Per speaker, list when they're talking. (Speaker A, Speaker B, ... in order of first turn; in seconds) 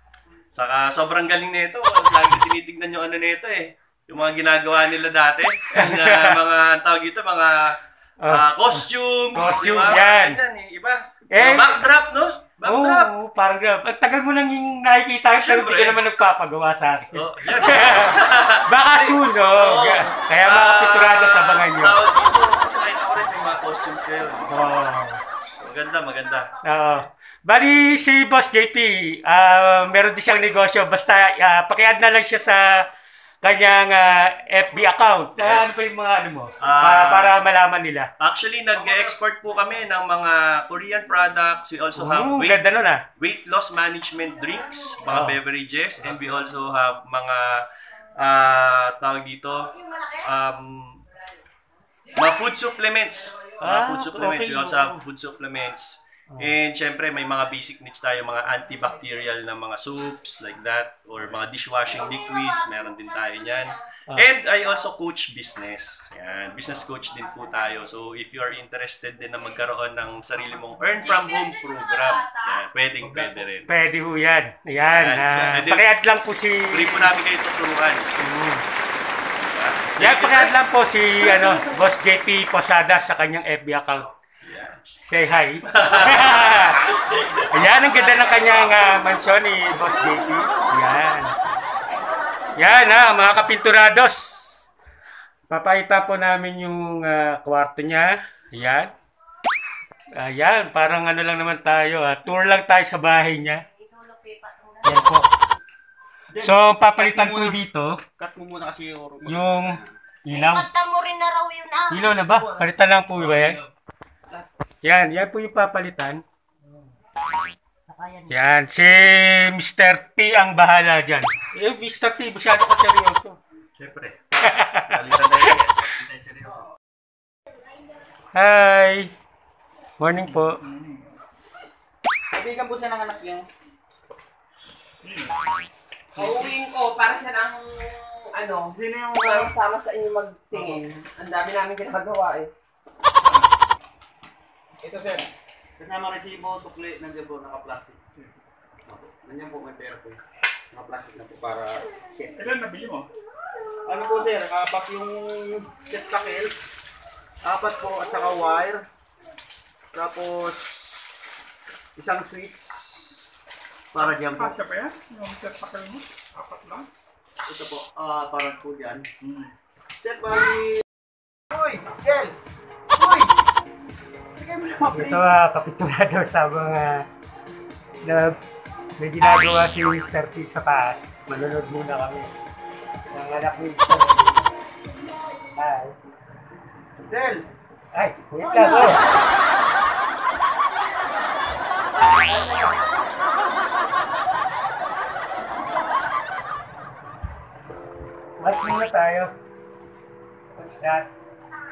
Speaker A: 0.5-13.1, 15.3-16.0, 17.1-24.5, 25.6-26.6, 35.4-35.8, 36.6-37.3, 38.2-42.6, 43.2-47.6, 48.2-51.0, 52.1-73.7, 74.9-75.9, 76.7-78.1, 79.4-80.5, 84.4-84.8, 85.7-87.5
Speaker B: 5.7-6.4, 8.2-8.8, 9.3-10.4, 11.3-11.8, 12.6-22.0, 24.5-25.2, 26.6-32.7, 33.4-38.1, 42.0-43.0, 45.1-45.4, 53.6-55.0, 73.7-77.1, 78.2-78.6, 80.0-84.1, 85.0-86.9, 87.5-91.3, 92.5-94.6, 95.5-98.9, 100.1-103.6, 104.8-105.3, 106.4-108.0, 109.3-110.7, 111.9-113.6, 114.8-116.2, 118.3-123.4, 124.4-125.5, 128.3-129.1, 130.0-130.6, 174.9-177.1, 178.0-178.4, 179.0-182.3, 183.1-184.4, 185.6-185.9, 187.9-189.0, 192.1-192.7, 198.4-199.3, 200.5-201.1
Speaker C: 87.7-88.5, 106.3-107.6, 108.2-109.9, 123.8-124.2, 124.9-126.7, 132.3-133.4, 138.7-139.5, 144.8-148.0, 148.9-150.2, 150.7-152.5, 153.8-156.5, 157.4-158.8, 159.9-160.9, 161.9-163.0, 163.9-164.6, 167.4-169.1, 170.0-170.8, 171.5-172.3, 172.9-173.3, 174.3-175.3, 187.1-187.4
Speaker D: 103.7-105.1, 110.3-112.1, 117.9-118.3
Speaker E: 136.2-142.5
Speaker F: 152.4-153.1, 164.3-166.9, 169.2-169.5